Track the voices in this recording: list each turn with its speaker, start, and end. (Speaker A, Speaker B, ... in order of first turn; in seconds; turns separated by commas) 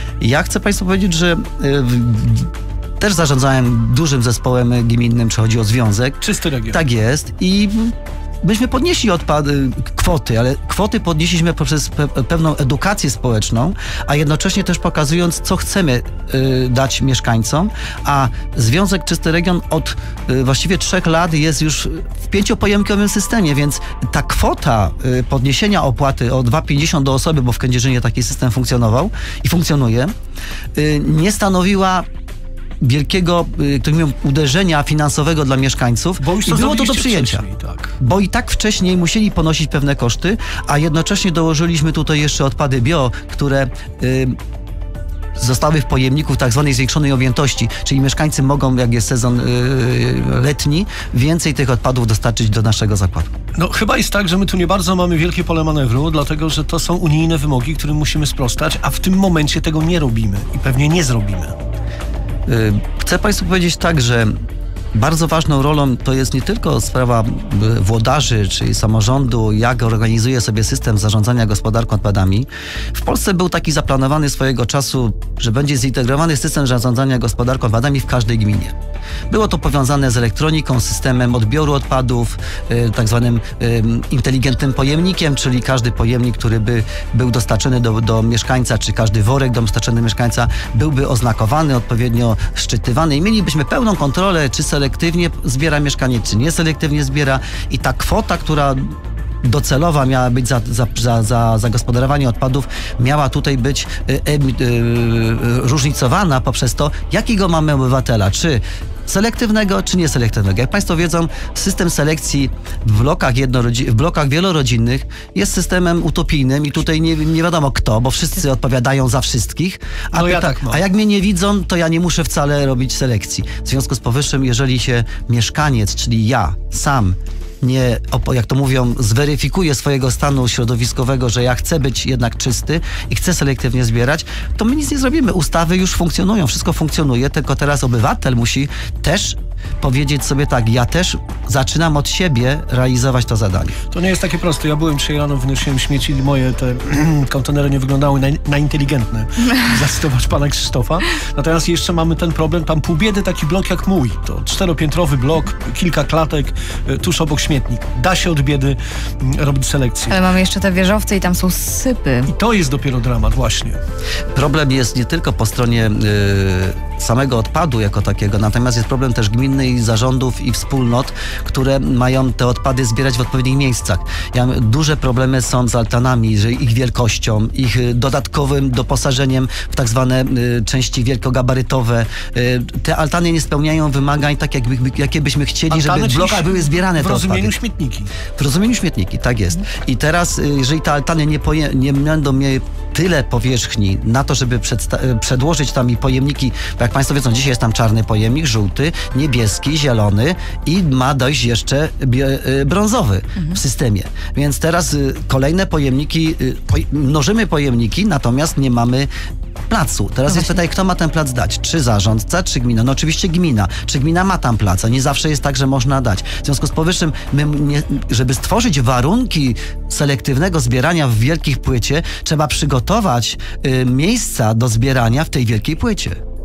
Speaker A: 0.2-6.2, Speaker B: 6.2-6.8, Speaker A: 6.7-30.1, Speaker A: 30.7-32.1, Speaker A: 32.8-37.4, Speaker B: 36.2-37.9, Speaker A: 38.0-44.4, Speaker A: 45.4-53.3, Speaker B: 53.5-61.5, Speaker A: 62.5-64.3, Speaker A: 64.9-78.7, Speaker A: 79.3-143.8, Speaker B: 120.1-120.8, Speaker B: 143.9-160.2, Speaker C: 160.1-162.3, Speaker B: 162.3-163.8, Speaker A: 164.3-187.5, Speaker B: 185.7-188.1, Speaker A: 188.3-209.1, Speaker A: 209.7-226.2